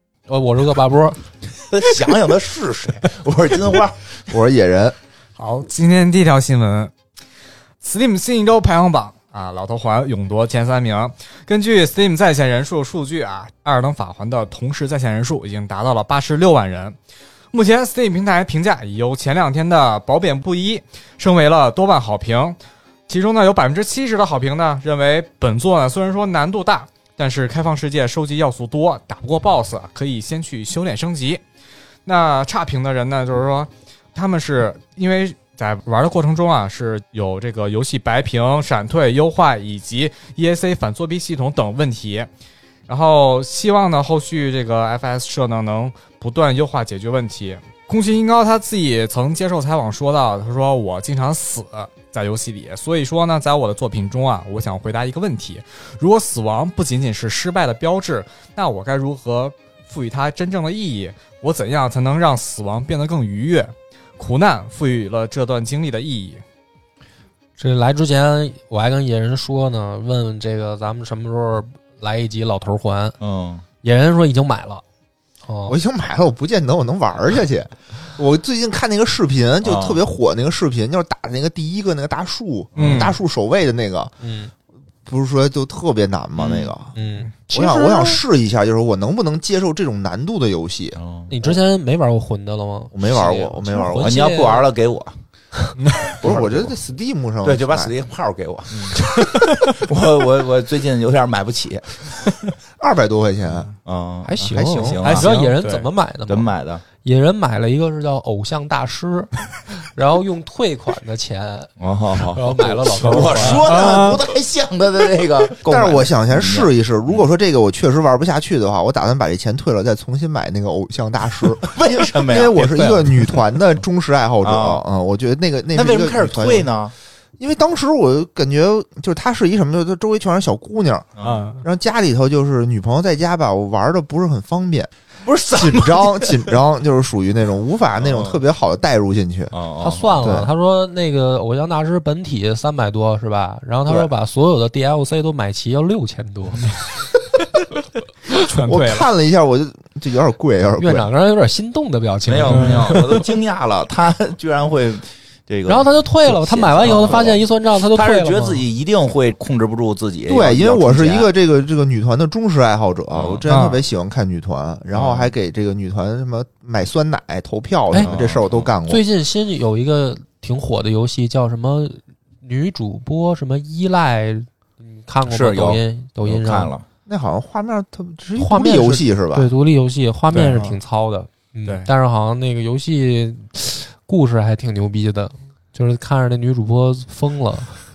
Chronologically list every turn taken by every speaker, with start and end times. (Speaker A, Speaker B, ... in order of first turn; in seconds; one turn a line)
Speaker A: 0.3-1.2
Speaker B: 1.7-4.1
Speaker C: 4.3-4.9
Speaker D: 5.4-6.9
Speaker D: 7.8-17.0
Speaker D: 17.5-22.6
Speaker D: 23.1-31.4
Speaker D: 32.0-42.3
Speaker D: 42.9-66.4
Speaker A: 67.6-73.2
Speaker B: 73.2-73.6
Speaker A: 73.8-74.8
Speaker A: 75.4-75.8
Speaker C: 75.7-84.1
Speaker B: 79.6-80.0
Speaker B: 82.8-83.2
Speaker D: 82.8-83.2
Speaker A: 84.2-84.5
Speaker C: 85.0-86.9
Speaker B: 86.4-86.7
Speaker A: 86.9-88.2
Speaker C: 87.5-91.5
Speaker B: 91.0-91.3
Speaker A: 91.3-94.7
Speaker C: 92.9-94.2
Speaker B: 94.0-95.2
Speaker D: 95.8-96.2
Speaker B: 96.2-96.7
Speaker C: 96.2-97.9
Speaker B: 97.4-102.2
Speaker D: 98.7-99.8
Speaker C: 102.8-103.7
Speaker B: 103.8-105.3
Speaker A: 104.2-106.5
Speaker C: 104.5-105.0
Speaker D: 105.0-105.9
Speaker B: 106.3-106.8
Speaker A: 107.0-113.7
Speaker B: 111.8-117.2
Speaker D: 113.6-114.3
Speaker C: 115.6-126.7
Speaker B: 121.6-123.3
Speaker A: 122.8-123.0
Speaker B: 124.4-124.8
Speaker B: 125.7-126.9
Speaker C: 127.4-131.1
Speaker B: 131.2-131.4
Speaker D: 131.2-131.6
Speaker C: 131.6-134.9
Speaker B: 135.2-136.5
Speaker C: 135.5-139.5
Speaker B: 138.0-138.4
Speaker B: 139.5-140.2
Speaker A: 139.8-146.7
Speaker C: 140.2-140.5
Speaker D: 148.3-149.1
Speaker C: 148.5-151.1
Speaker A: 150.8-153.2
Speaker B: 152.2-161.3
Speaker D: 152.5-152.9
Speaker A: 155.7-158.6
Speaker C: 156.9-157.2
Speaker C: 160.3-169.0
Speaker B: 163.1-163.4
Speaker D: 163.5-163.8
Speaker B: 164.9-165.3
Speaker B: 168.0-168.7
Speaker A: 168.9-176.7
Speaker B: 175.3-176.8
Speaker C: 177.1-179.5
Speaker A: 178.4-187.8
Speaker D: 180.3-180.8